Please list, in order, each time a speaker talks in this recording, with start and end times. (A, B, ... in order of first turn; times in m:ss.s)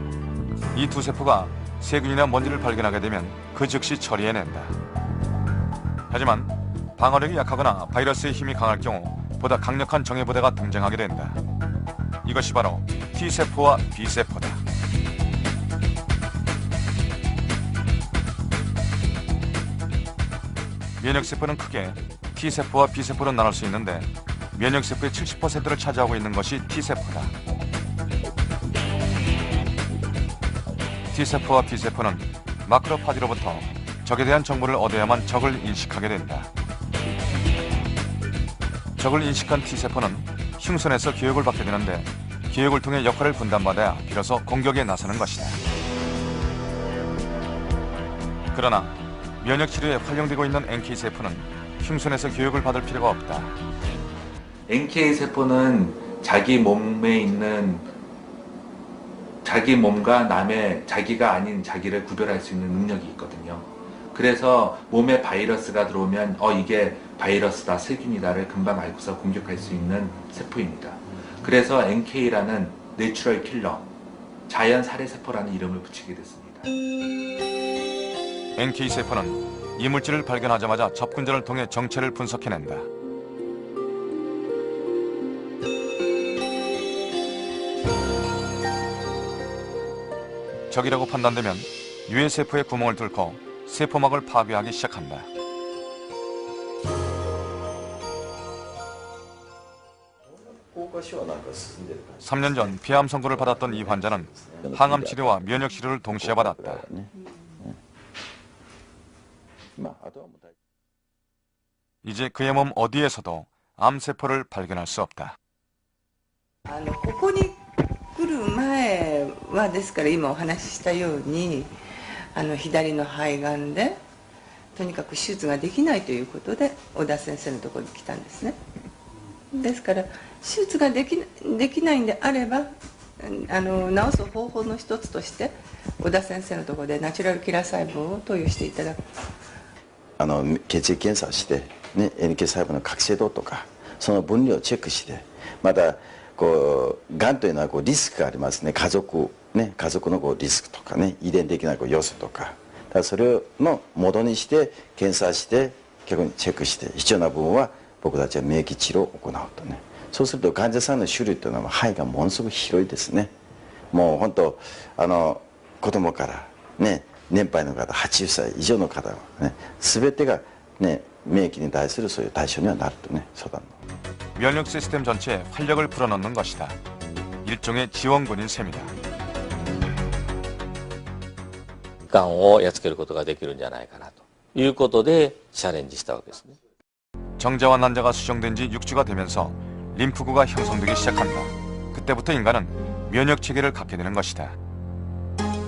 0:00.7-0:04.8 A
0:06.1-0:11.4 A
0:12.2-0:14.6 A
0:21.0-0:27.4 A
0:31.1-0:36.5 A
0:39.0-0:45.6 A
0:48.5-0:53.6 A
0:54.7-0:57.9 B
0:59.4-1:13.9 B
1:14.5-1:16.7 B
1:18.6-1:22.9 A
1:30.7-1:35.3 A
1:40.3-1:47.8 C
1:42.2-1:46.8 A
1:49.8-1:50.5 C
1:52.0-1:55.4 A
1:56.7-2:01.7 D
2:02.3-2:04.0 D
2:04.7-2:08.6 D
2:09.5-2:19.1 D
2:20.2-2:43.3 C
2:43.9-2:53.8 C
2:54.4-2:56.8 A
2:57.4-2:58.9 A
3:02.1-3:06.6 E
3:07.4-3:14.6 A